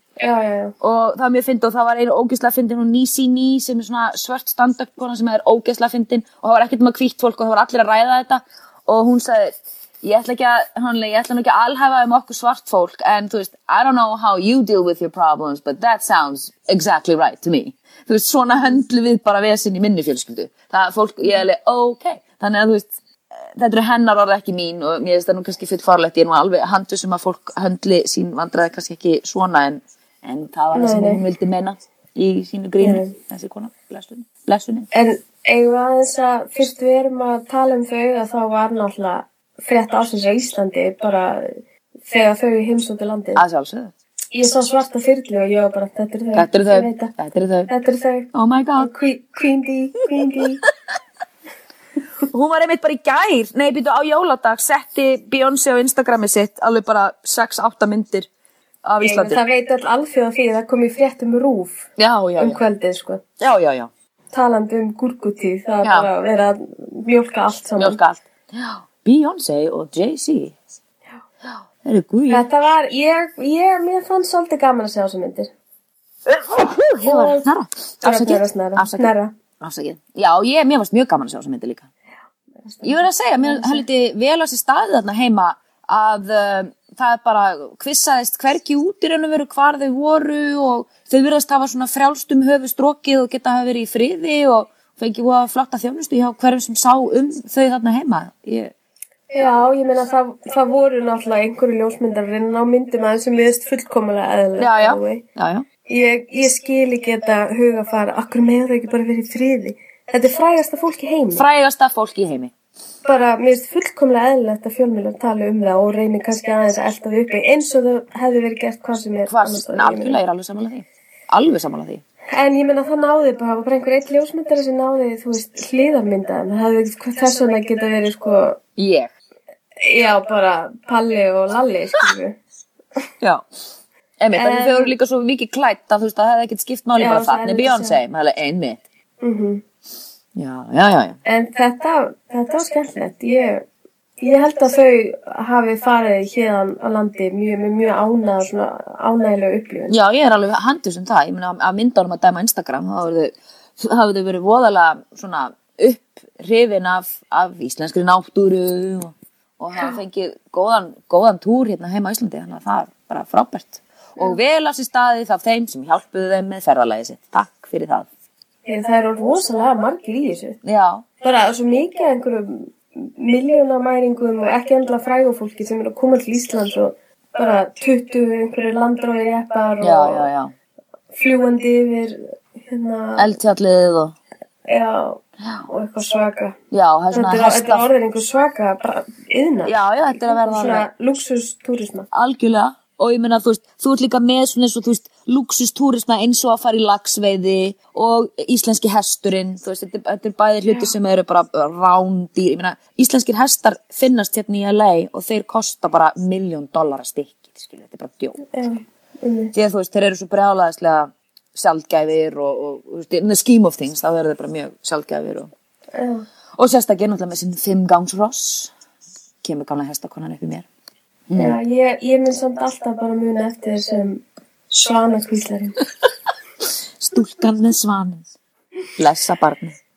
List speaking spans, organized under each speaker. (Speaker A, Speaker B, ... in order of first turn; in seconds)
Speaker A: 0.2-0.7, 30.7-31.2, 32.8-33.1, 34.9-43.4, 44.3-47.1, 47.7-50.6, 59.0-63.2, 64.3-68.0, 72.3-75.5, 77.0-77.5, 78.0-79.3, 82.7-83.9, 99.3-105.2, 105.9-111.5, 113.0-120.2, 122.3-128.6, 129.8-132.4, 134.3-134.9, 137.0-138.0, 139.2-139.6, 141.2-143.7, 144.2-149.9, 168.7-170.6, 171.2-180.3, 181.1-183.4, 184.7-186.6, 187.1-192.1, 208.5-209.5, 215.9-216.3, 221.4-225.8
Speaker B: 0.8-34.9, 43.4-43.9, 46.4-47.7, 48.3-48.9, 52.3-58.3, 58.8-59.4, 62.0-62.6, 63.4-63.9, 65.8-66.1, 67.8-70.5, 71.4-72.5, 76.3-81.9, 82.8-98.7, 104.6-105.7, 111.3-112.5, 119.3-122.0, 128.8-129.1, 134.2-138.8, 140.4-141.2, 149.9-168.1, 170.6-171.0, 179.8-180.5, 183.2-184.2, 185.4-185.7, 186.7-187.9, 189.7-190.9, 192.1-208.4, 209.5-215.5, 216.6-218.7, 219.4-220.7, 221.3-221.6, 227.0-228.2, 229.0-229.8